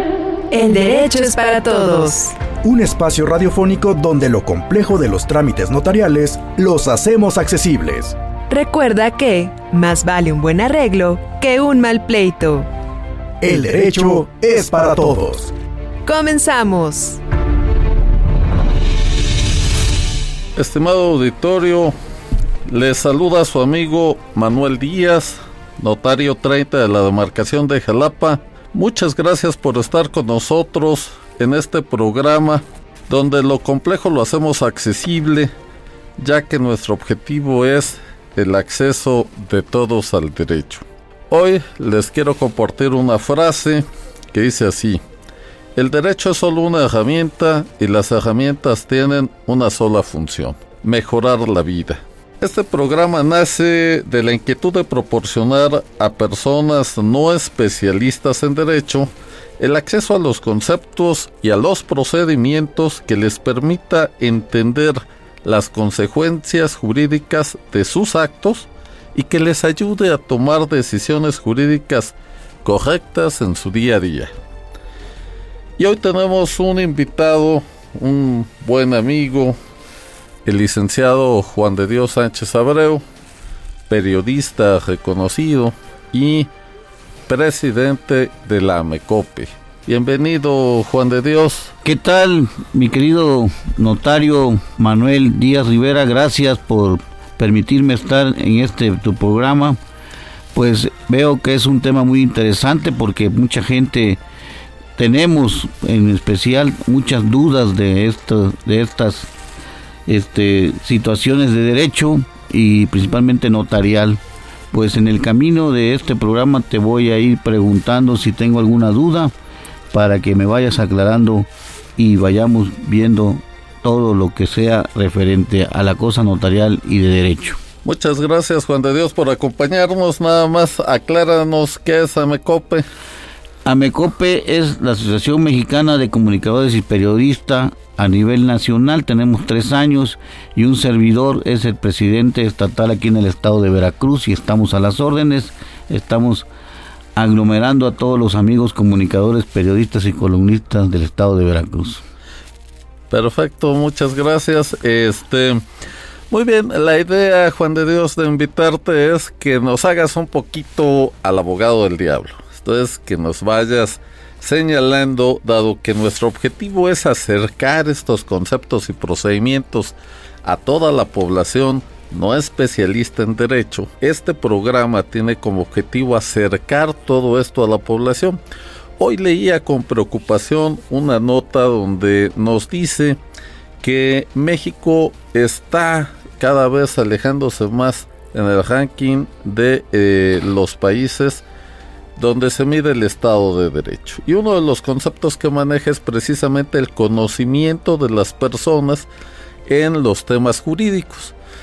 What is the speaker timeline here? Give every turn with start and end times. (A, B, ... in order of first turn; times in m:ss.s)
0:00.5-0:02.4 A
0:02.6-0:08.2 B
0:08.5-0:12.7 A
0:13.4-0:15.5 B
0:16.0-0:17.2 A
0:20.6-0:21.9 C
0:22.6-0:35.5 C
0:36.2-0:45.0 C
0:45.8-1:14.3 C
1:15.8-1:19.6 C
1:20.4-1:23.0 C
1:23.9-1:26.5 C
1:27.3-1:31.7 C
1:31.8-1:39.8 D
1:40.5-1:44.2 D
1:45.0-1:49.3 D
1:50.1-1:54.2 D
1:54.7-1:59.3 D
1:59.9-2:07.6 D
2:07.8-2:12.8 C
2:13.6-2:26.5 D
2:27.2-2:32.0 D
2:33.1-2:35.6 C
2:36.3-2:58.4 C
2:59.0-3:03.2 C
3:03.8-3:11.4 C
3:12.2-3:19.1 C
3:19.6-3:21.3 C